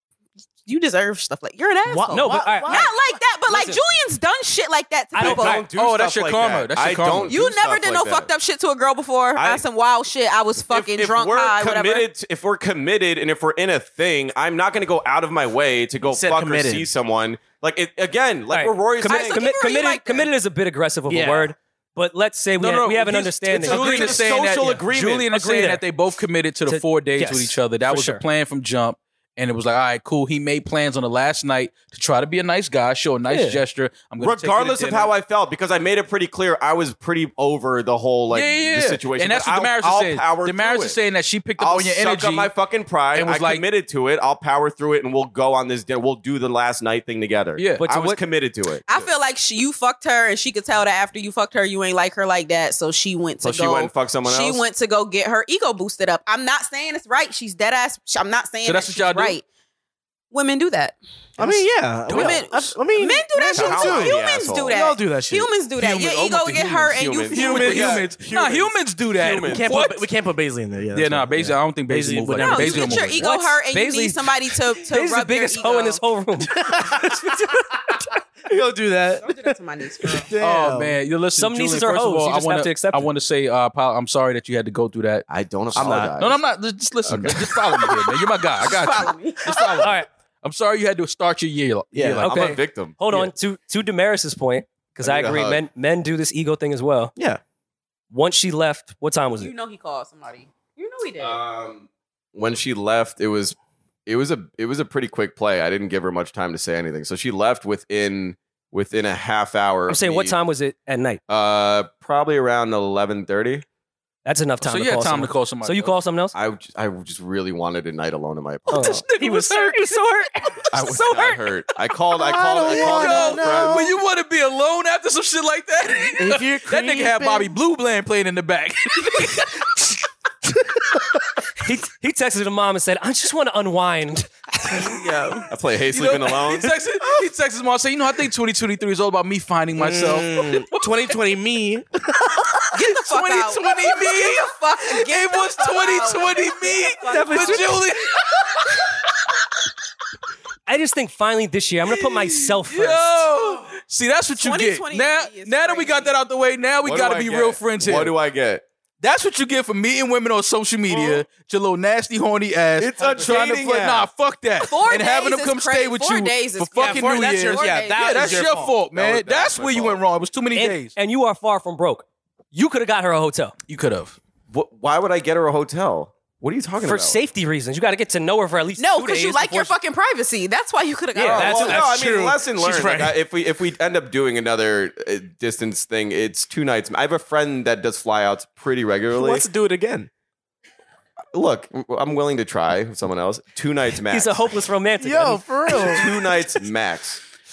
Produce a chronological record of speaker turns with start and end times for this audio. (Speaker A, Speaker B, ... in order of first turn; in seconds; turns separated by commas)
Speaker A: 0.7-5.6, Speaker B: 1.9-2.9, Speaker C: 2.1-2.9, Speaker C: 3.5-3.8, Speaker C: 5.1-5.6, Speaker D: 5.2-8.3, Speaker E: 5.2-7.3, Speaker A: 7.3-12.1, Speaker D: 9.3-9.6, Speaker D: 10.7-19.5, Speaker B: 16.0-16.9, Speaker C: 18.5-24.2, Speaker A: 19.1-20.3, Speaker B: 21.1-21.5, Speaker E: 22.6-35.1, Speaker D: 23.6-25.3, Speaker C: 25.3-25.8, Speaker C: 26.7-28.2, Speaker C: 33.3-33.6, Speaker D: 34.2-41.0, Speaker E: 38.3-42.5, Speaker D: 41.6-49.1, Speaker E: 43.1-43.6, Speaker E: 47.6-47.9, Speaker C: 47.8-48.2, Speaker A: 48.9-59.5, Speaker D: 53.4-54.6, Speaker E: 58.6-59.4, Speaker A: 60.3-61.0, Speaker B: 61.4-64.2, Speaker A: 62.1-67.9, Speaker E: 62.1-62.4, Speaker D: 63.5-64.8, Speaker B: 64.7-65.5, Speaker E: 65.8-70.0, Speaker D: 66.4-69.7, Speaker B: 69.5-73.1, Speaker E: 70.9-73.3, Speaker A: 72.4-76.0, Speaker C: 73.2-77.1, Speaker B: 76.5-81.0, Speaker A: 79.2-80.3, Speaker E: 80.4-85.3, Speaker C: 81.4-83.1, Speaker D: 85.3-86.4, Speaker B: 85.8-86.1, Speaker E: 85.8-92.6, Speaker D: 87.0-87.8, Speaker A: 87.8-89.9, Speaker C: 89.8-90.1, Speaker B: 91.9-92.3, Speaker C: 92.2-97.1, Speaker D: 92.3-93.0, Speaker D: 95.0-95.6, Speaker C: 98.1-99.5, Speaker A: 99.4-101.4, Speaker D: 101.2-110.4, Speaker C: 109.9-111.2, Speaker D: 111.3-113.6, Speaker C: 114.2-116.3, Speaker E: 114.6-116.0, Speaker D: 116.3-119.0, Speaker C: 118.7-121.4, Speaker E: 118.7-120.0, Speaker D: 120.7-123.9, Speaker B: 122.2-123.9, Speaker E: 122.5-129.8, Speaker B: 126.2-127.5, Speaker C: 131.6-134.9, Speaker D: 135.5-136.7, Speaker E: 135.9-141.1, Speaker B: 139.8-142.6, Speaker A: 142.7-147.8, Speaker E: 142.8-148.9, Speaker B: 147.1-147.7, Speaker C: 150.7-153.3, Speaker E: 151.9-158.1, Speaker A: 154.4-156.2, Speaker D: 156.8-158.6, Speaker E: 159.0-170.9, Speaker D: 162.8-164.1, Speaker A: 164.6-168.5, Speaker B: 166.8-168.8, Speaker D: 168.9-170.0, Speaker C: 170.6-173.6, Speaker E: 173.7-174.2, Speaker D: 174.5-177.2, Speaker C: 176.8-179.7, Speaker A: 178.8-181.8, Speaker C: 181.1-181.6, Speaker D: 181.2-189.5, Speaker B: 181.3-183.2, Speaker B: 189.1-190.1, Speaker D: 191.3-194.5, Speaker C: 194.1-196.0, Speaker B: 195.0-196.2, Speaker D: 195.7-197.2